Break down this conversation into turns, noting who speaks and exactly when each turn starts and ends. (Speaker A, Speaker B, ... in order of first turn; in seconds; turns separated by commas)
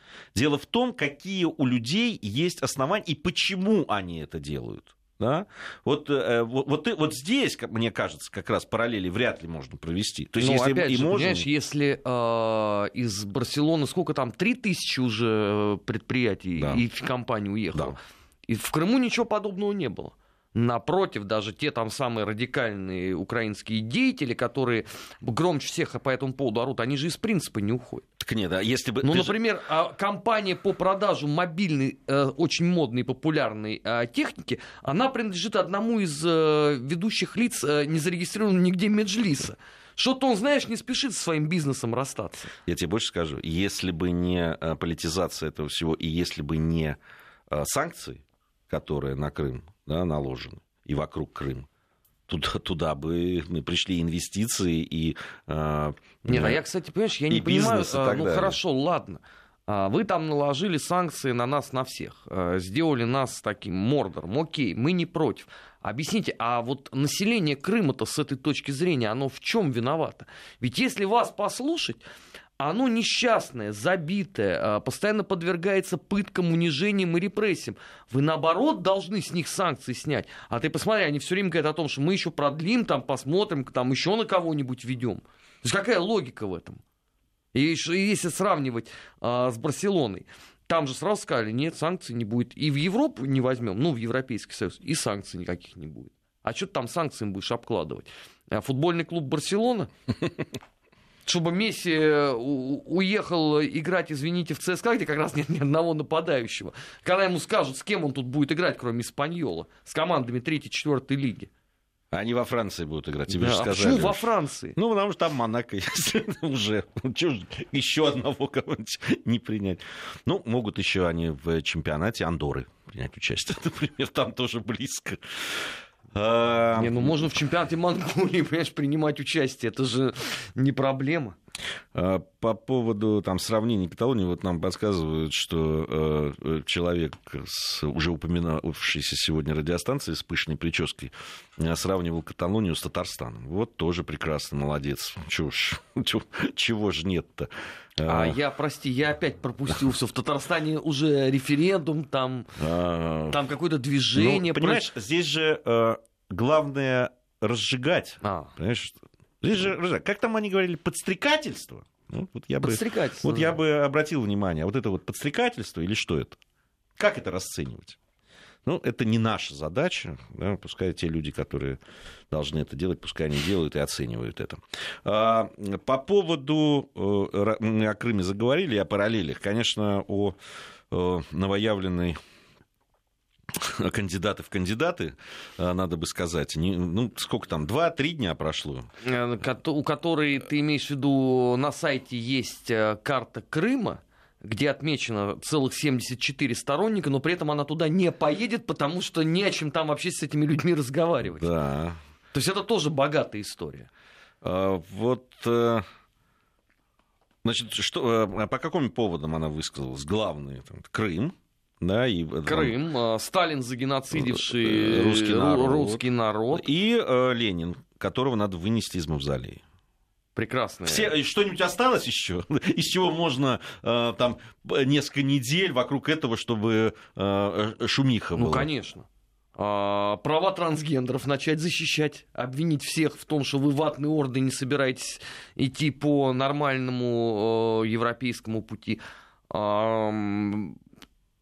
Speaker A: 0.3-11.5, Speaker B: 10.4-28.0, Speaker A: 16.6-16.8, Speaker A: 28.2-29.4, Speaker B: 29.0-42.5, Speaker A: 42.6-47.0, Speaker A: 47.5-51.7, Speaker A: 52.3-56.6, Speaker B: 56.3-72.0, Speaker A: 57.3-58.6, Speaker B: 72.6-86.8, Speaker B: 87.5-99.9, Speaker B: 101.2-111.5, Speaker A: 112.1-127.3, Speaker B: 113.3-114.8, Speaker B: 126.8-131.3, Speaker A: 131.9-148.4, Speaker B: 148.0-152.6, Speaker A: 152.6-153.4, Speaker B: 153.3-154.9, Speaker A: 154.1-166.4, Speaker B: 158.2-158.5, Speaker B: 162.6-163.6, Speaker A: 167.0-168.0, Speaker A: 168.6-171.8, Speaker A: 172.3-180.4, Speaker A: 180.9-182.2, Speaker A: 183.5-188.9, Speaker B: 189.0-201.5, Speaker A: 201.2-202.0, Speaker B: 202.3-203.9, Speaker A: 204.4-205.8, Speaker A: 207.4-212.8, Speaker B: 212.4-216.7, Speaker A: 214.1-219.6, Speaker B: 220.3-221.1, Speaker A: 220.8-228.7, Speaker B: 228.3-240.8